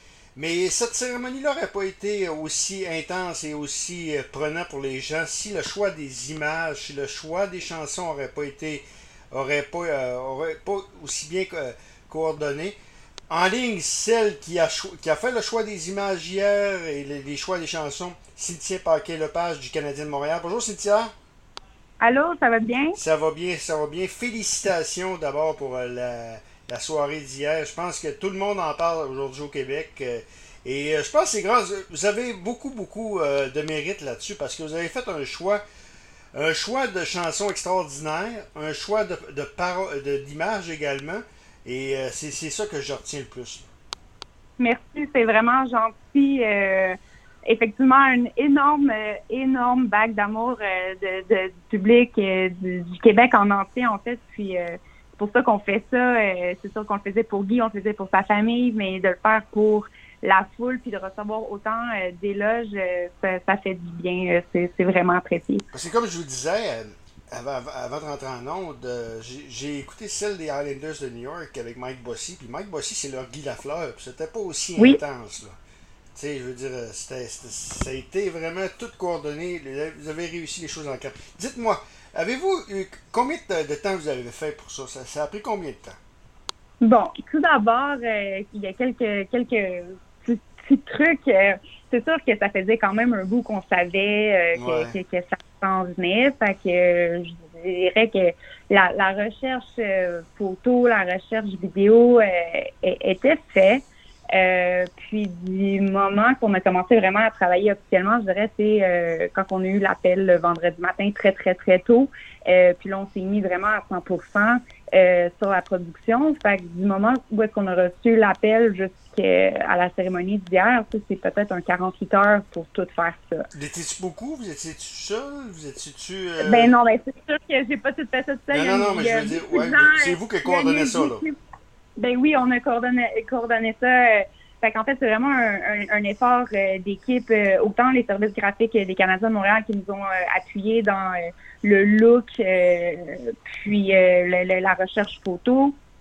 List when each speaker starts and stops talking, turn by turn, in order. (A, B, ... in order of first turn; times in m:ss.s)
0:00.4-0:12.8 A
0:13.3-0:21.1 A
0:22.0-0:23.0 B
0:23.0-0:35.6 A
0:36.3-0:43.7 A
0:44.6-1:05.6 B
1:05.7-1:15.6 A
1:16.2-1:26.0 A
1:26.8-2:03.5 B
1:34.6-1:35.0 A
2:03.5-2:06.7 A
2:06.4-2:11.4 B
2:08.5-2:11.2 A
2:12.0-2:25.8 B